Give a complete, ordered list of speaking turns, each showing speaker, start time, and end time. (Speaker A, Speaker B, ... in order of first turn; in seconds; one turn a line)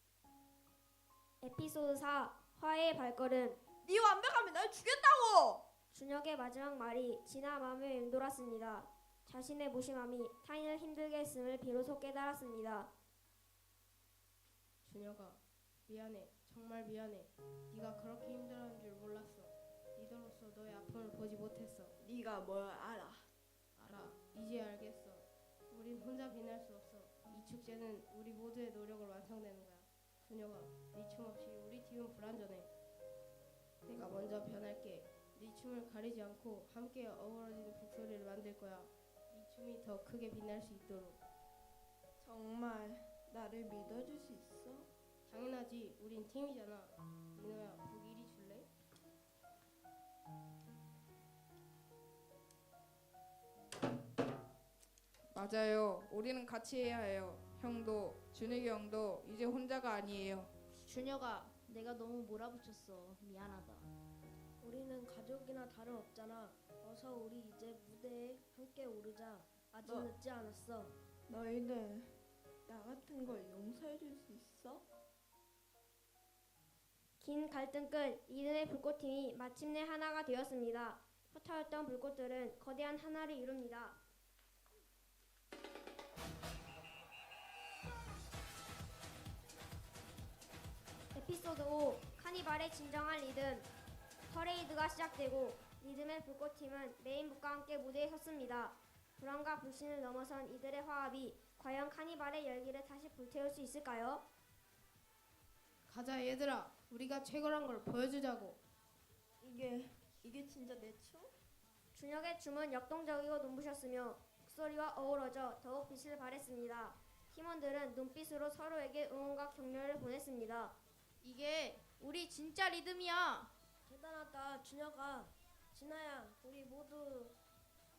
Speaker A: 1.4-3.6
Speaker B: 3.8-5.7
Speaker A: 5.9-12.9
Speaker C: 14.8-21.9
Speaker B: 22.0-23.3
Speaker C: 23.8-32.7
Speaker C: 33.9-41.2
Speaker B: 42.2-44.9
Speaker C: 45.3-48.7
Speaker D: 55.3-60.5
Speaker E: 60.8-63.9
Speaker F: 64.6-70.9
Speaker B: 69.8-70.1
Speaker B: 71.3-72.1
Speaker B: 72.7-74.8
Speaker A: 77.2-84.0
Speaker A: 91.1-93.7
Speaker A: 94.3-104.2
Speaker C: 105.9-108.6
Speaker B: 109.4-111.3
Speaker A: 111.9-120.8
Speaker E: 121.2-123.5
Speaker F: 123.8-127.3